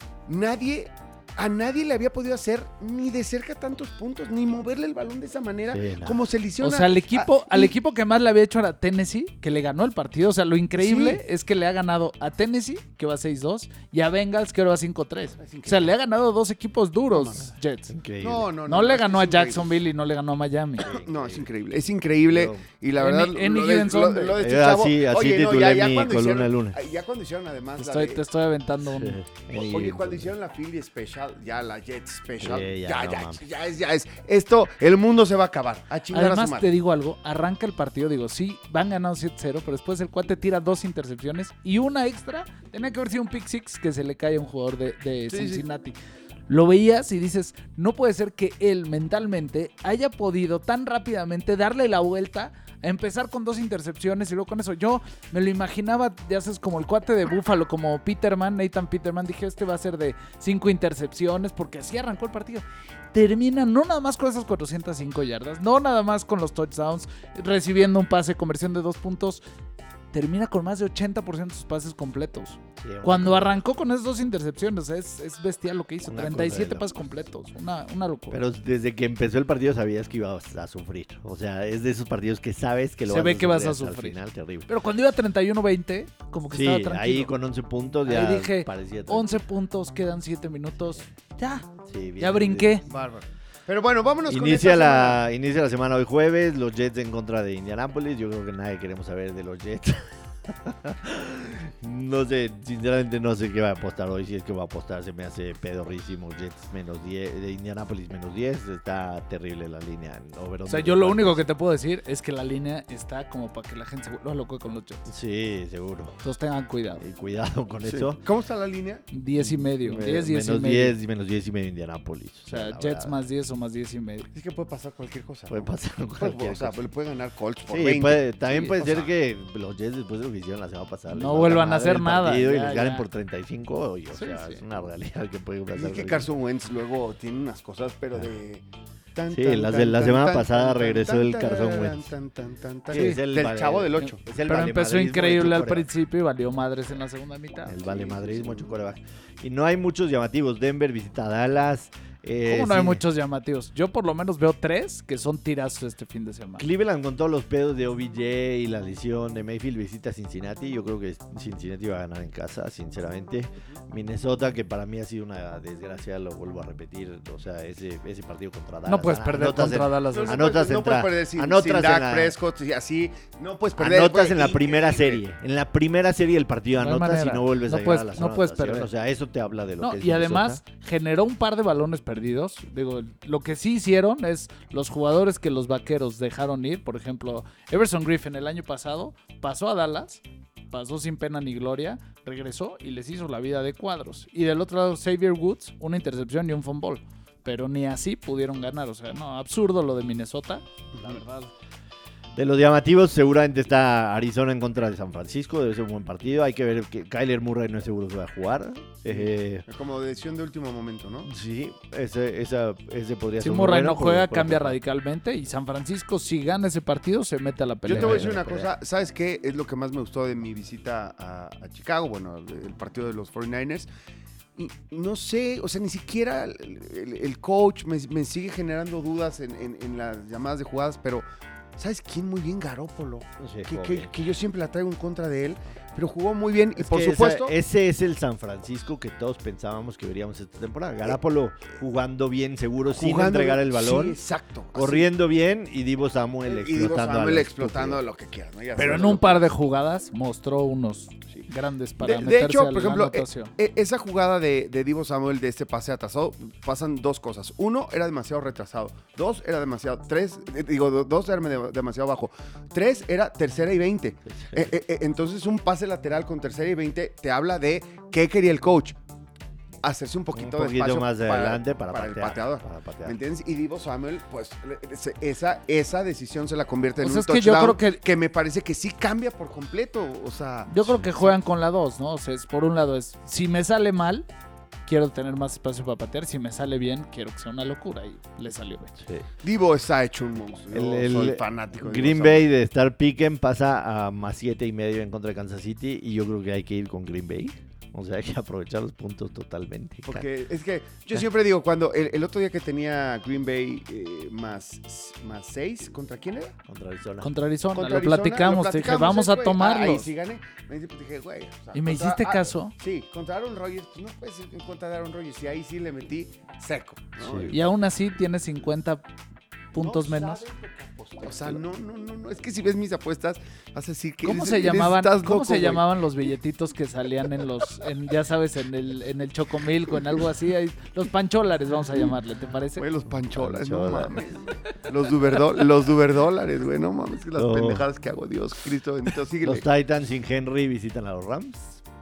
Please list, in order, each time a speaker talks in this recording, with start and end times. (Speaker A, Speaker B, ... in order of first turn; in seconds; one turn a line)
Speaker A: 0.2-7.7
Speaker B: 5.7-6.2
Speaker C: 6.6-17.9
Speaker A: 10.8-11.2
Speaker A: 15.4-15.9
Speaker A: 17.1-17.5
Speaker B: 17.9-18.5
Speaker A: 18.2-19.8
Speaker C: 18.7-20.9
Speaker B: 20.8-21.5
Speaker A: 20.9-28.2
Speaker B: 22.3-22.6
Speaker C: 23.0-24.4
Speaker B: 24.4-26.8
Speaker C: 27.8-29.2
Speaker B: 28.8-30.3
Speaker A: 29.5-36.7
Speaker B: 32.4-33.4
Speaker C: 36.1-46.0
Speaker A: 45.3-45.6
Speaker C: 46.5-69.4
Speaker C: 70.1-78.4
Speaker B: 72.8-73.6
Speaker B: 76.1-76.9
Speaker B: 78.3-84.7
Speaker C: 83.1-87.3
Speaker B: 86.5-89.4
Speaker C: 88.0-91.7
Speaker B: 91.8-92.8
Speaker C: 92.2-92.8
Speaker A: 92.9-95.2
Speaker B: 94.3-111.4
Speaker C: 110.7-115.1
Speaker B: 115.1-116.2
Speaker C: 116.2-117.0
Speaker B: 117.0-118.2
Speaker A: 117.8-119.0
Speaker C: 119.1-120.9
Speaker B: 119.3-123.2
Speaker C: 122.5-124.3
Speaker A: 124.3-129.1
Speaker B: 125.5-126.8
Speaker B: 127.7-136.3
Speaker C: 131.1-133.0
Speaker C: 134.1-134.6
Speaker A: 135.7-138.6
Speaker A: 139.1-144.2
Speaker B: 139.3-142.1
Speaker B: 142.9-145.9
Speaker C: 142.9-143.2
Speaker C: 144.4-147.8
Speaker B: 147.7-153.0
Speaker A: 147.8-148.8
Speaker C: 152.4-156.7
Speaker B: 156.6-172.4
Speaker C: 168.8-170.4
Speaker A: 170.1-175.2
Speaker B: 173.8-180.6
Speaker C: 176.8-178.9
Speaker C: 179.8-201.5
Speaker A: 200.9-201.2
Speaker B: 202.3-209.7
Speaker A: 209.1-211.3
Speaker B: 211.2-214.8
Speaker C: 213.4-218.3
Speaker A: 217.8-223.9
Speaker B: 217.9-218.7
Speaker A: 224.6-231.2
Speaker A: 231.8-237.5
Speaker B: 233.4-234.1
Speaker B: 236.8-244.2
Speaker A: 242.9-245.1
Speaker B: 244.7-248.0
Speaker A: 246.4-249.4
Speaker C: 248.8-253.5
Speaker A: 252.0-269.0
Speaker B: 264.3-264.7
Speaker A: 269.8-280.7
Speaker B: 270.3-273.2
Speaker C: 277.0-278.0
Speaker C: 280.7-284.3
Speaker C: 284.9-288.9
Speaker B: 289.0-289.3
Speaker A: 289.4-292.4
Speaker B: 290.7-300.2
Speaker A: 300.1-306.6
Speaker B: 306.6-307.3
Speaker C: 307.2-310.1
Speaker A: 307.7-317.5
Speaker C: 311.7-312.7
Speaker B: 317.2-317.6
Speaker C: 317.5-319.0
Speaker C: 319.7-320.4
Speaker A: 319.8-325.9
Speaker C: 324.2-332.8
Speaker A: 332.8-339.6
Speaker B: 333.3-334.6
Speaker B: 337.3-337.9
Speaker B: 339.4-341.8